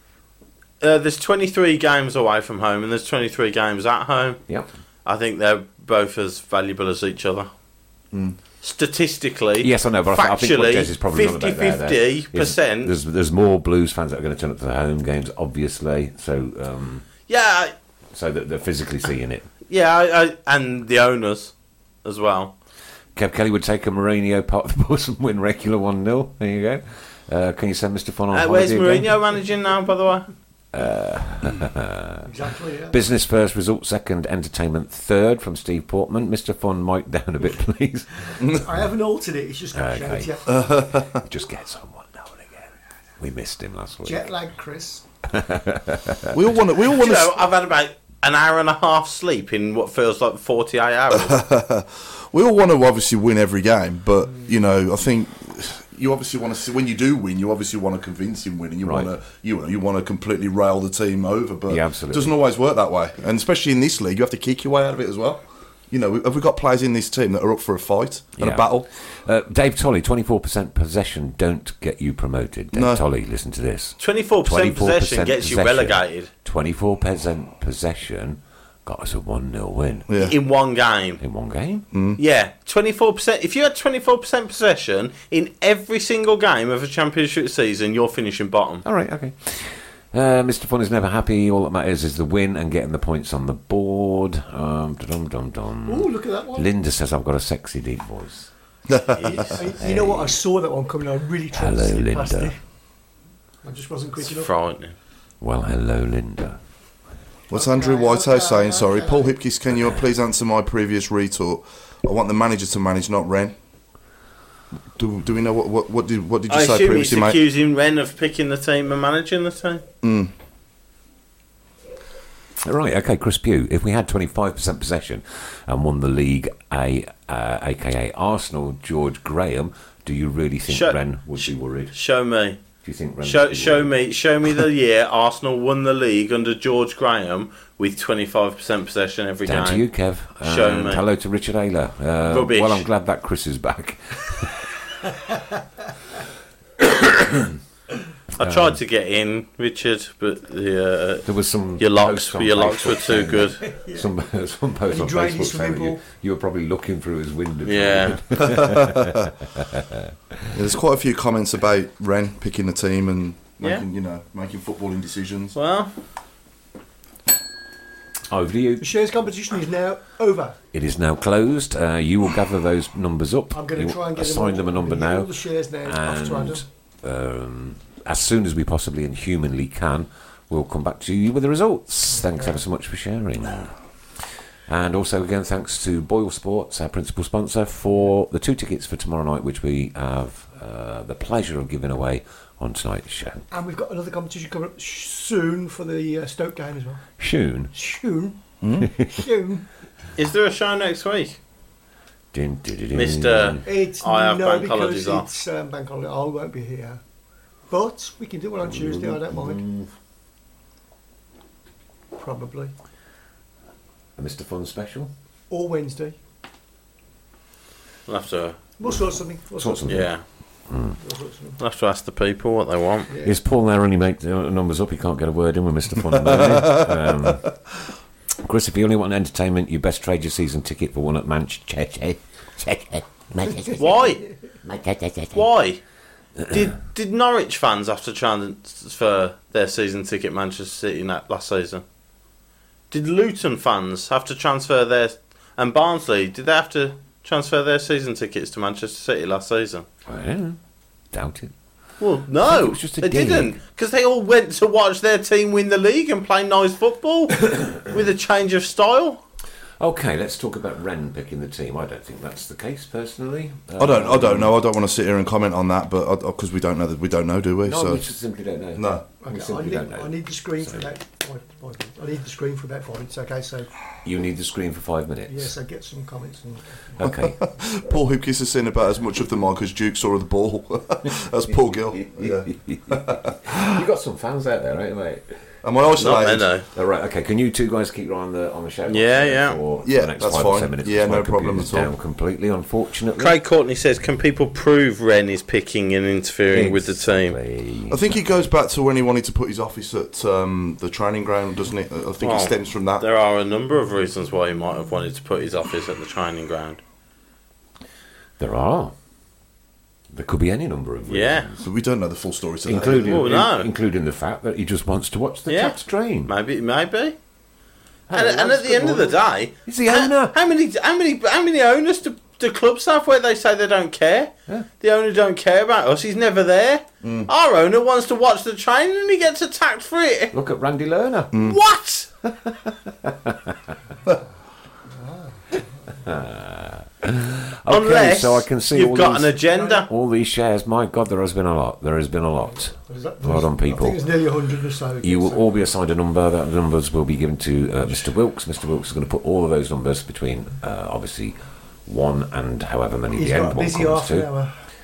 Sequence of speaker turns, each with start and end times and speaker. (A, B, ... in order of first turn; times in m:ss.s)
0:00.8-0:04.4 A
0:05.0-0:07.5 A
0:08.1-0:08.4 B
0:08.6-0:12.9 A
0:09.6-0:17.1 C
0:17.3-0:17.7 A
0:18.1-0:19.5 C
0:19.7-0:21.5 A
0:22.0-0:22.6 A
0:23.2-0:29.2 C
0:28.3-0:30.3 A
0:30.7-0:38.6 C
0:32.3-0:33.0 D
0:38.4-0:40.6 D
0:39.7-0:44.3 C
0:40.5-0:41.2 B
0:44.0-0:45.0 D
0:45.3-0:46.4 C
0:46.3-0:47.4 B
0:46.9-0:51.4 A
0:51.1-1:08.9 B
0:58.8-0:59.1 C
1:01.7-1:02.4 C
1:08.4-1:20.1 C
1:12.7-1:13.0 B
1:14.0-1:16.3 A
1:20.1-1:20.4 B
1:20.2-1:21.2 A
1:21.2-1:21.9 C
1:21.9-1:22.2 B
1:22.2-1:28.8 A
1:28.8-1:38.5 C
1:35.9-1:36.7 D
1:38.9-1:39.5 B
1:39.2-1:42.6 D
1:39.8-1:40.4 C
1:41.5-1:42.5 C
1:43.6-1:44.5 D
1:44.2-1:45.0 A
1:45.4-1:46.6 C
1:47.5-1:49.4 D
1:47.5-1:53.5 B
1:55.0-1:57.4 B
1:56.5-1:59.8 A
2:00.0-2:00.3 B
2:02.6-2:12.0 C
2:10.7-2:12.6 A
2:12.8-2:13.9 C
2:13.2-2:19.9 A
2:19.4-2:24.7 C
2:20.4-2:21.0 A
2:22.3-2:22.9 A
2:26.8-2:27.6 C
2:28.4-2:31.3 A
2:28.4-2:28.8 C
2:31.2-2:40.5 C
2:31.8-2:33.6 A
2:33.6-2:34.1 D
2:34.9-2:36.0 D
2:37.6-2:38.2 A
2:38.4-2:39.3 B
2:40.5-2:45.6 B
2:43.6-2:43.8 A
2:45.6-2:45.9 A
2:48.3-2:48.9 C
2:48.8-2:50.6 D
2:50.7-2:55.3 C
2:53.5-2:56.6 D
2:55.8-3:03.8 C
3:02.2-3:02.5 D
3:04.7-3:13.4 C
3:13.5-3:17.0 D
3:17.2-3:17.7 C
3:17.7-3:18.4 D
3:18.6-3:18.9 B
3:18.8-3:19.2 C
3:19.0-3:19.6 D
3:20.2-3:21.4 A
3:22.3-3:23.6 C
3:22.9-3:25.3 A
3:23.6-3:27.0 D
3:27.7-3:29.6 D
3:28.6-3:29.9 C
3:32.1-3:32.7 D
3:34.2-3:35.1 C
3:35.5-3:36.2 D
3:38.1-3:38.6 A
3:38.8-3:39.9 D
3:39.6-3:40.1 C
3:39.9-3:40.2 A
3:40.7-3:41.0 C
3:41.0-3:41.6 D
3:41.6-3:43.1 A
3:43.1-3:43.3 D
3:43.2-3:47.5 C
3:46.1-3:47.3 B
3:48.4-3:54.1 C
3:53.8-3:54.2 A
3:54.6-3:55.5 C
3:55.4-3:55.8 A
3:56.4-3:56.7 C
3:56.5-4:01.8 A
4:02.9-4:09.9 A
4:10.1-4:10.6 C
4:11.1-4:11.5 C
4:12.0-4:19.2 A
4:12.4-4:13.6 C
4:17.5-4:17.9 C
4:19.8-4:24.5 C
4:23.8-4:28.0 B
4:27.6-4:30.9 C
4:28.8-4:29.0 B
4:29.2-4:33.7 D
4:34.0-4:35.5 C
4:35.3-4:37.0 D
4:37.0-4:37.4 C
4:37.0-4:43.7 B
4:41.5-4:53.4 C
4:45.6-4:46.5 B
4:46.0-4:46.7 A
4:48.9-4:49.6 A
4:49.8-4:51.9 B
4:53.2-4:57.4 A
4:56.5-4:58.2 C
4:57.9-5:03.1 B
5:02.2-5:06.8 A
5:08.4-5:08.9 C
5:10.1-5:11.7 C
5:11.1-5:11.5 A
5:11.6-5:13.4 B
5:12.6-5:16.3 C
5:12.8-5:13.7 A
5:15.5-5:17.2 A
5:18.1-5:20.4 C
5:18.1-5:30.3 A
5:27.0-5:27.3 B
5:30.3-5:31.4 C
5:31.3-5:31.6 B
5:31.4-5:32.1 A
5:32.2-5:33.8 C
5:34.9-5:35.4 D
5:36.0-5:44.1 C
5:37.7-5:39.9 A
5:42.7-5:45.5 D
5:45.0-5:51.4 C
5:51.9-5:54.3 C
5:53.1-5:54.5 D